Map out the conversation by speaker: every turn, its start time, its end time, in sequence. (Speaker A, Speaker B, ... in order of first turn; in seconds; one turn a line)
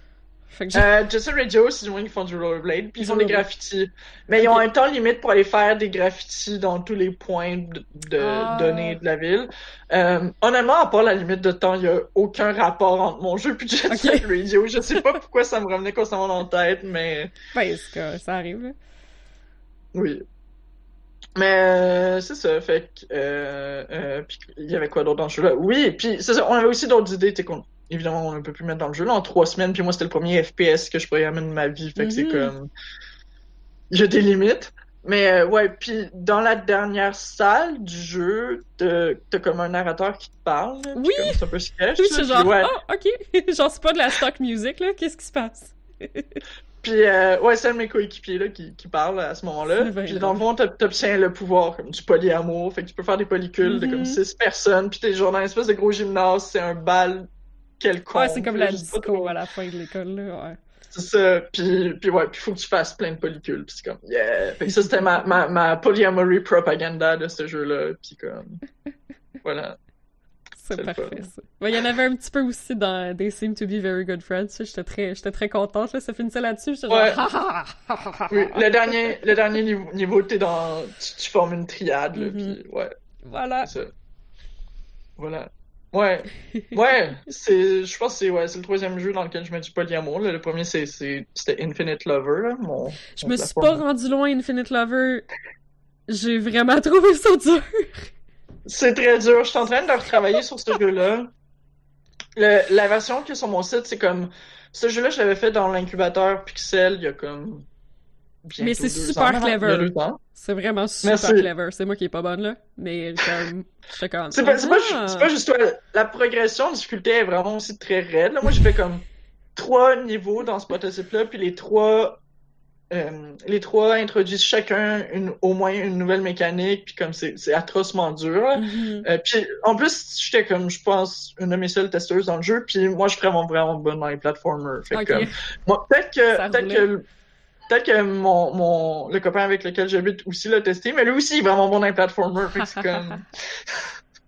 Speaker A: 0.5-0.9
Speaker B: 0.7-17.3
Speaker A: 3.0-3.4
Speaker A: 8.2-9.0
Speaker A: 13.9-14.3
Speaker A: 17.5-18.7
Speaker B: 19.9-20.2
Speaker B: 21.4-32.7
Speaker A: 32.0-32.5
Speaker B: 33.9-42.7
Speaker A: 41.0-41.4
Speaker A: 42.0-46.4
Speaker B: 46.8-57.3
Speaker A: 49.8-50.4
Speaker A: 53.6-54.2
Speaker B: 57.8-59.3
Speaker A: 58.1-60.6
Speaker B: 60.9-68.6
Speaker B: 69.4-69.8
Speaker A: 70.6-78.7
Speaker B: 70.7-71.3
Speaker B: 76.9-77.2
Speaker B: 78.3-83.0
Speaker A: 82.2-82.6
Speaker A: 83.2-83.7
Speaker B: 83.6-83.9
Speaker B: 85.2-93.8
Speaker A: 93.1-95.3
Speaker A: 96.1-98.1
Speaker B: 98.7-101.3
Speaker B: 102.4-107.7
Speaker B: 108.5-110.2
Speaker A: 108.6-115.3
Speaker B: 111.0-111.5
Speaker B: 114.3-119.0
Speaker B: 119.6-122.2
Speaker B: 122.9-137.0
Speaker A: 128.6-129.1
Speaker A: 134.9-135.3
Speaker A: 136.3-136.9
Speaker B: 137.7-143.9